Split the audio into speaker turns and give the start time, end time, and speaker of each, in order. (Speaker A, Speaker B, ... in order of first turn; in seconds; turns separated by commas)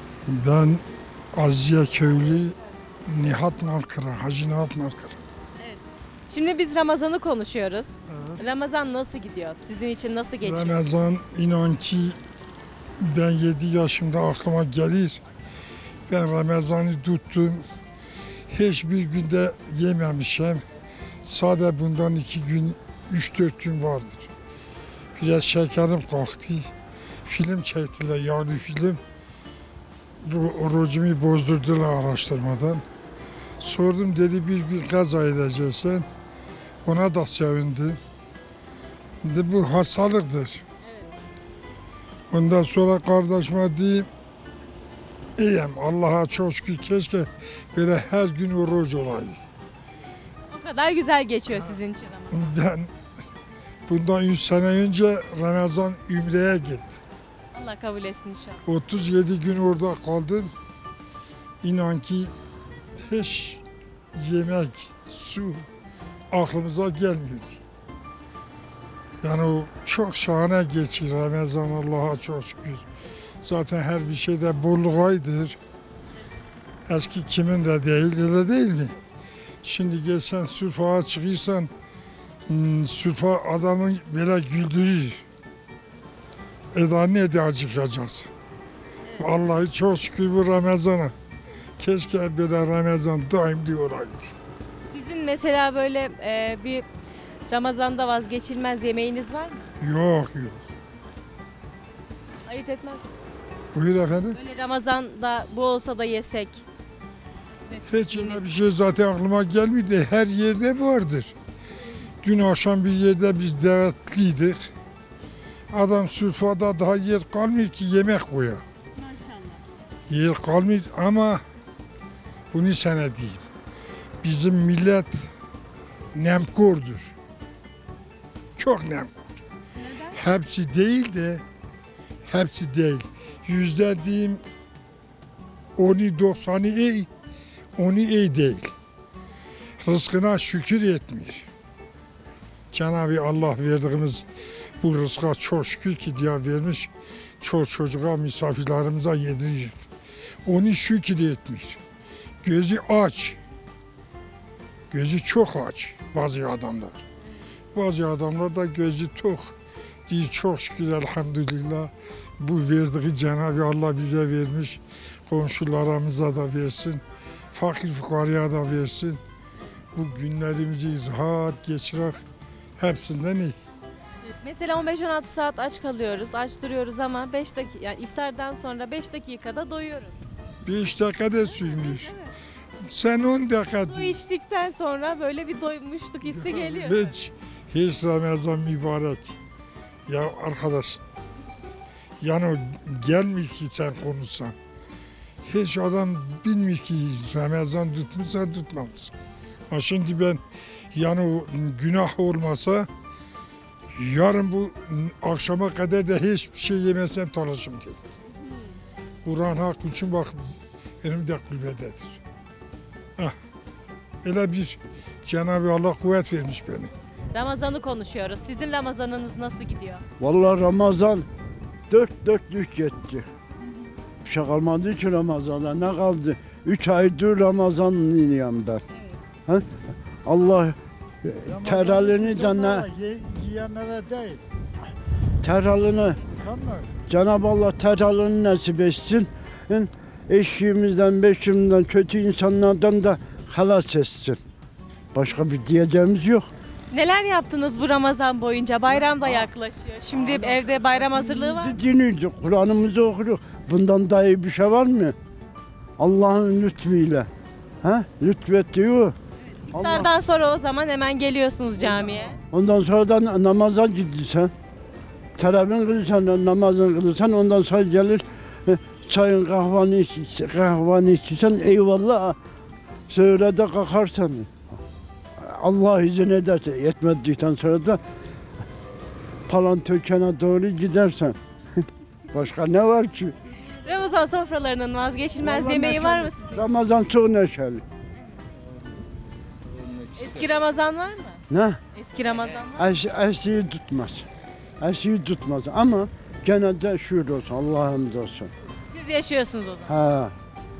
Speaker A: 0.3-0.8, Speaker A: 1.3-2.6, Speaker A: 3.1-5.2, Speaker B: 5.6-10.8, Speaker A: 8.1-8.4, Speaker A: 10.4-12.2, Speaker A: 13.0-15.2, Speaker A: 16.1-17.6, Speaker A: 18.5-20.6, Speaker A: 21.2-24.3, Speaker A: 25.2-26.7, Speaker A: 27.2-29.0, Speaker A: 30.2-32.8, Speaker A: 33.6-36.1, Speaker A: 36.9-38.0, Speaker A: 39.2-40.6, Speaker A: 42.3-44.1, Speaker A: 45.4-49.4, Speaker B: 50.5-52.4, Speaker A: 52.3-52.9, Speaker A: 53.9-57.0, Speaker B: 57.5-58.6, Speaker A: 58.6-60.5, Speaker A: 61.6-62.3, Speaker A: 63.1-63.6, Speaker A: 64.2-65.7, Speaker A: 66.3-67.6, Speaker A: 69.2-72.8, Speaker A: 73.4-75.6, Speaker A: 76.9-79.0, Speaker A: 79.6-81.7, Speaker A: 82.5-85.2, Speaker A: 86.7-88.3, Speaker A: 89.2-91.2, Speaker A: 91.8-94.3, Speaker B: 94.9-96.9, Speaker B: 97.5-99.7, Speaker A: 99.8-100.6, Speaker B: 102.5-103.2, Speaker A: 103.7-104.4, Speaker B: 104.3-106.6, Speaker B: 107.7-108.5, Speaker A: 107.9-111.3, Speaker A: 112.2-114.7, Speaker A: 115.7-118.6, Speaker A: 120.1-121.4, Speaker A: 122.5-123.4, Speaker A: 124.2-125.3, Speaker A: 126.1-127.2, Speaker A: 128.6-129.2, Speaker A: 130.1-131.4, Speaker A: 132.3-134.4, Speaker A: 135.8-137.1, Speaker A: 137.8-138.7, Speaker A: 139.8-141.5, Speaker A: 142.7-144.2, Speaker A: 144.8-149.8, Speaker A: 150.4-151.8, Speaker A: 152.4-153.4, Speaker A: 154.9-157.0, Speaker A: 157.7-159.6, Speaker A: 160.1-169.2, Speaker A: 169.9-172.2, Speaker A: 172.8-173.6, Speaker B: 174.4-180.2, Speaker A: 180.7-182.1, Speaker A: 182.9-184.2, Speaker B: 183.9-187.1, Speaker A: 186.3-189.4, Speaker A: 190.1-191.0, Speaker A: 192.2-194.6, Speaker A: 195.4-199.1, Speaker A: 199.7-202.9, Speaker A: 204.0-208.2, Speaker A: 209.2-210.4, Speaker A: 211.0-212.2, Speaker A: 214.2-216.9, Speaker B: 217.3-220.0, Speaker C: 220.2-221.2, Speaker C: 221.9-223.2, Speaker C: 224.2-228.8, Speaker C: 230.3-232.9, Speaker D: 231.5-234.4, Speaker C: 235.4-236.3, Speaker D: 236.3-236.9, Speaker C: 237.0-244.4, Speaker C: 245.1-246.5, Speaker B: 246.9-251.7, Speaker C: 250.2-255.2, Speaker C: 256.0-257.3, Speaker C: 257.8-259.1, Speaker B: 259.7-262.4, Speaker C: 259.7-260.1, Speaker C: 262.5-264.5, Speaker C: 265.4-272.4, Speaker C: 273.1-274.8, Speaker C: 275.4-278.0, Speaker C: 279.5-281.4, Speaker C: 282.3-283.3, Speaker B: 283.7-286.7, Speaker C: 285.4-287.8, Speaker B: 290.1-291.4, Speaker C: 291.5-291.8, Speaker B: 291.9-292.9, Speaker C: 292.7-294.3, Speaker C: 294.8-298.5, Speaker B: 298.9-300.0, Speaker C: 299.9-300.4